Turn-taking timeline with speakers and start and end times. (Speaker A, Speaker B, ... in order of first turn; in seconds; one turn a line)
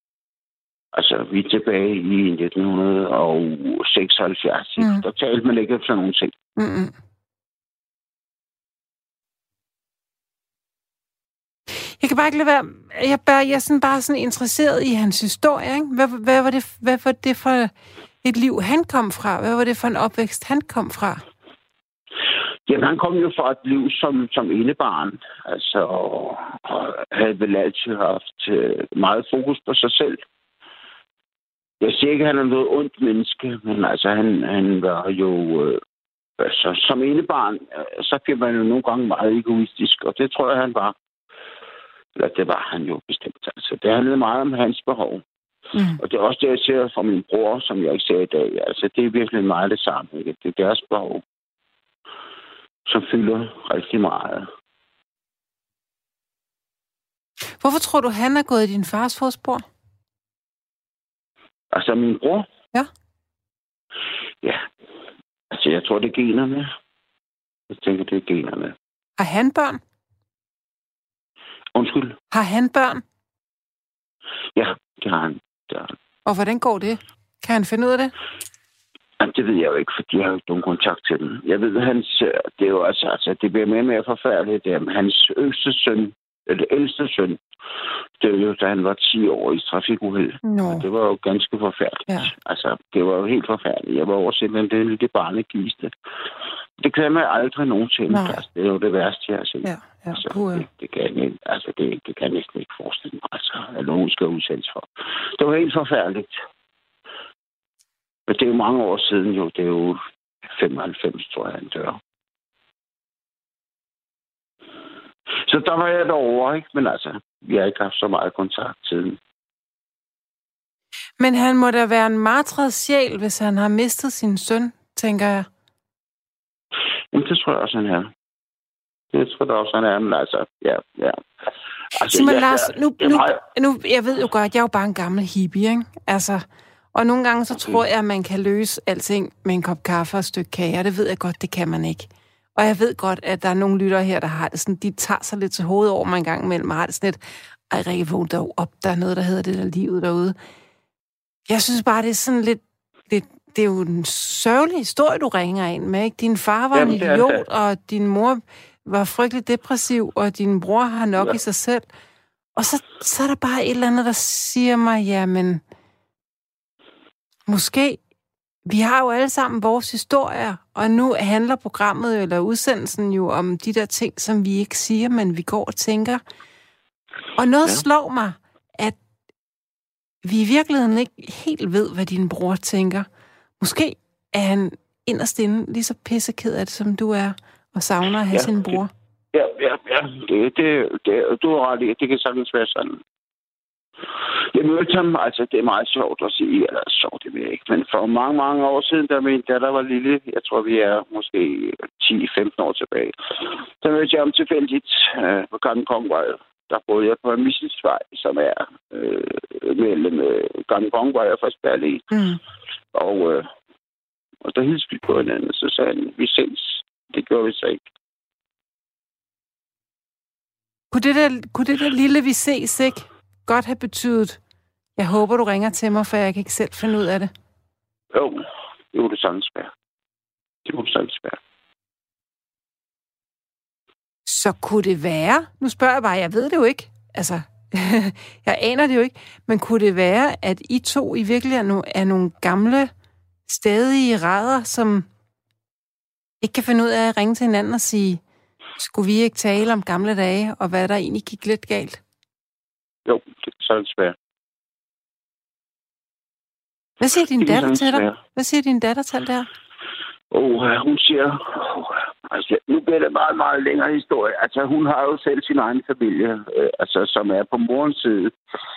Speaker A: 0.9-6.3
Speaker B: 4.8-5.0
Speaker B: 6.6-6.9
Speaker B: 11.8-17.7
Speaker B: 18.2-21.2
Speaker A: 22.7-30.2
Speaker A: 31.8-35.8
Speaker A: 36.4-41.0
Speaker A: 42.1-45.2
Speaker B: 45.8-46.0
Speaker A: 46.0-51.2
Speaker A: 52.9-54.5
Speaker B: 57.6-59.6
Speaker A: 61.7-62.5
Speaker A: 65.5-66.7
Speaker A: 67.7-68.8
Speaker B: 69.2-69.8
Speaker A: 71.8-72.2
Speaker B: 72.3-73.0
Speaker A: 74.6-76.0
Speaker B: 76.3-78.1
Speaker A: 79.2-87.4
Speaker A: 88.2-95.9
Speaker B: 90.4-90.9
Speaker A: 96.8-106.3
Speaker B: 98.1-98.4
Speaker B: 99.6-100.7
Speaker A: 108.3-112.0
Speaker A: 115.5-119.2
Speaker B: 121.2-125.5
Speaker A: 127.1-128.1
Speaker A: 129.1-131.2
Speaker A: 131.9-133.4
Speaker B: 132.0-147.2
Speaker B: 147.7-150.4
Speaker B: 151.5-161.9
Speaker A: 156.7-157.4
Speaker B: 162.6-165.6
Speaker B: 167.5-168.0
Speaker B: 168.7-176.2
Speaker B: 177.4-179.0
Speaker B: 180.2-183.1
Speaker B: 183.6-188.9
Speaker A: 188.3-188.8
Speaker A: 189.3-193.0
Speaker A: 194.5-212.1
Speaker B: 212.1-212.4
Speaker A: 212.9-213.5
Speaker A: 214.4-217.8
Speaker B: 220.9-224.4
Speaker B: 225.0-227.3
Speaker A: 228.1-229.7
Speaker A: 230.7-231.4
Speaker B: 234.3-242.9
Speaker B: 243.5-245.1
Speaker B: 246.4-248.2
Speaker B: 248.8-252.0
Speaker A: 253.1-254.2
Speaker B: 257.0-259.5
Speaker A: 257.4-258.2
Speaker A: 260.3-268.4